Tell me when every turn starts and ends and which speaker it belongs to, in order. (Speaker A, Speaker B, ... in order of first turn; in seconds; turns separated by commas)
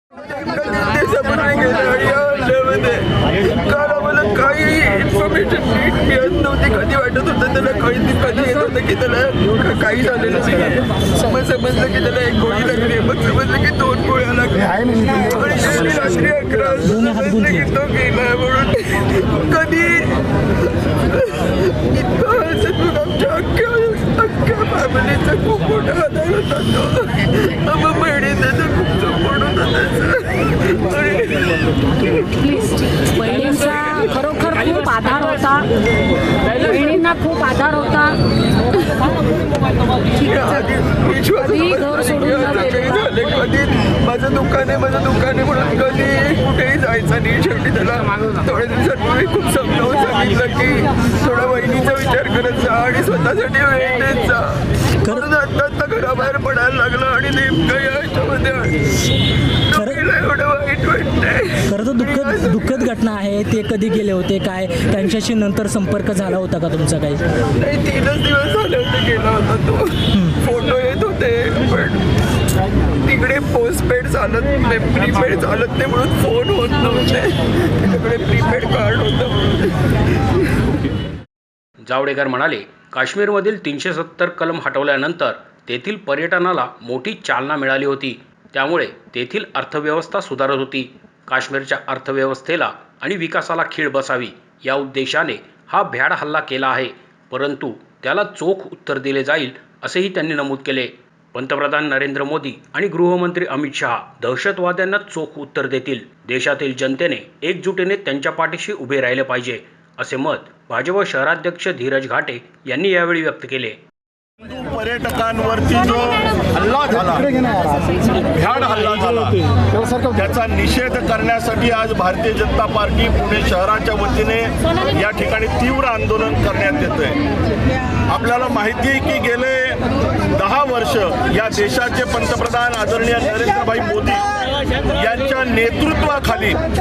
Speaker A: 0.3-20.2, Speaker B: 16.9-17.7, Speaker A: 21.1-34.7, Speaker C: 33.4-35.7, Speaker C: 36.7-38.2, Speaker A: 40.1-58.9, Speaker A: 59.7-62.9, Speaker B: 59.7-60.0, Speaker B: 61.7-67.2, Speaker A: 67.6-72.0, Speaker A: 73.0-79.8, Speaker D: 81.8-113.8, Speaker E: 114.4-117.6, Speaker E: 118.2-119.4, Speaker E: 119.9-127.2, Speaker E: 128.1-129.8, Speaker E: 130.3-134.2, Speaker E: 134.9-136.6